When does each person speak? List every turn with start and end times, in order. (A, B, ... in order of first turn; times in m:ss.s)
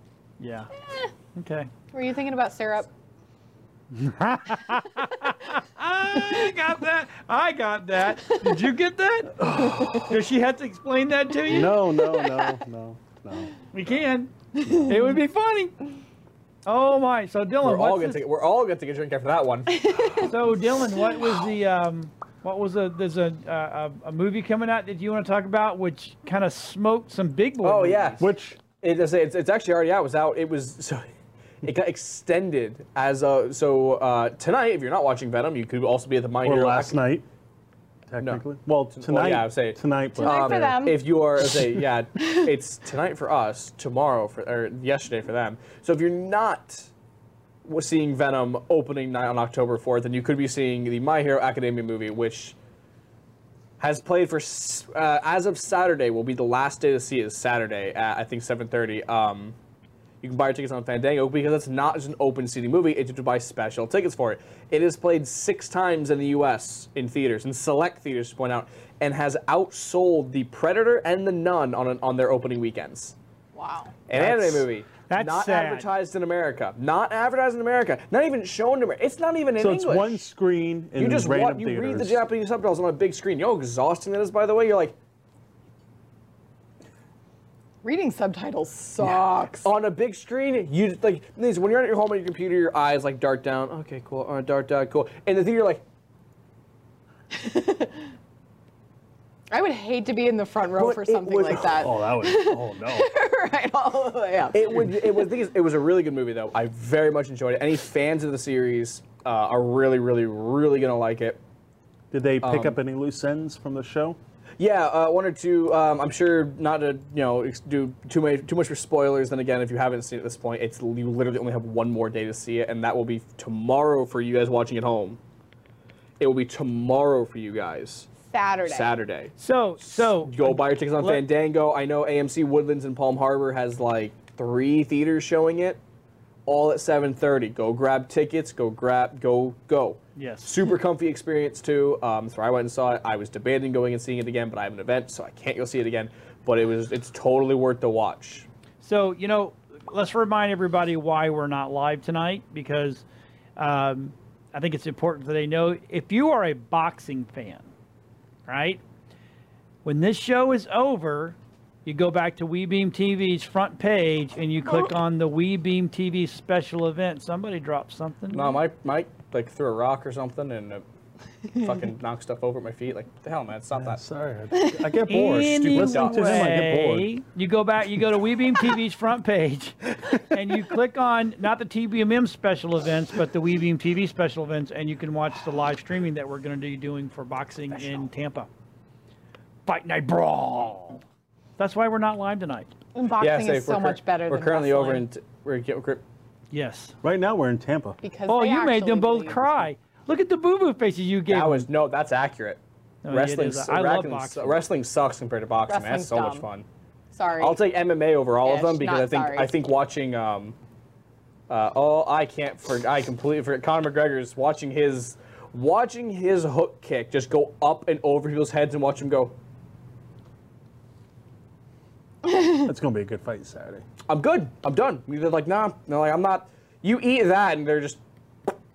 0:00.4-0:00.7 A
0:01.4-0:01.7 A
0:01.9-0:02.9 B
0:03.9-0:09.5 A
0:06.1-0:06.5 B
0:09.4-0:10.2 C
0:10.1-0:11.8 A
0:11.5-0:14.0 C
0:11.7-0:12.4 B
0:13.7-0:14.3 A
0:14.6-0:15.0 C
0:14.9-0:15.8 A
0:16.7-0:18.2 A
0:17.6-0:20.0 D
0:19.8-0:20.3 B
0:20.3-0:28.2 A
0:27.6-0:28.2 D
0:28.2-0:28.6 C
0:28.8-0:31.1 D
0:31.6-0:37.0 D
0:36.4-0:37.3 C
0:38.1-0:40.9 C
0:38.2-0:46.9 D
0:40.2-0:41.0 B
0:47.6-0:52.6 D
0:53.8-0:59.6 D
1:00.2-1:13.2 D
1:13.6-1:14.0 B
1:14.1-1:20.2 D
1:14.1-1:14.7 C
1:15.1-1:15.9 A
1:19.6-1:22.2 C
1:21.0-1:25.0 D
1:27.8-1:29.7 B
1:29.6-1:35.8 D
1:37.3-1:38.0 B
1:39.5-1:45.1 B
1:40.8-1:41.6 D
1:41.1-1:43.1 C
1:44.5-1:51.4 D
1:52.1-1:54.2 C
1:52.4-1:52.8 D
1:54.6-2:05.2 D
2:06.2-2:08.1 D
2:08.2-2:08.9 B
2:08.7-2:15.8 D
2:09.4-2:11.3 A
2:16.5-2:28.5 D
2:20.2-2:20.5 A
2:28.8-2:33.0 A
2:33.6-2:37.7 A
2:38.5-2:38.8 A
2:39.8-2:48.6 A
2:48.3-2:50.8 D
2:51.6-2:54.0 D
2:53.7-2:57.1 C
2:54.5-2:55.0 B
2:55.1-3:08.5 A
2:55.2-2:56.6 D
3:09.7-3:11.0 A
3:11.6-3:12.7 A
3:13.0-3:15.1 B
3:13.2-3:16.0 D
3:16.5-3:17.0 A
3:17.0-3:18.0 C
3:18.0-3:19.4 B
3:18.3-3:21.7 A
3:21.3-3:26.7 D
3:23.0-3:24.6 A
3:25.7-3:26.5 B
3:27.1-3:27.6 B
3:27.4-3:30.6 D
3:28.4-3:29.5 B
3:31.5-3:39.4 D
3:42.5-3:43.8 C
3:44.1-3:48.5 D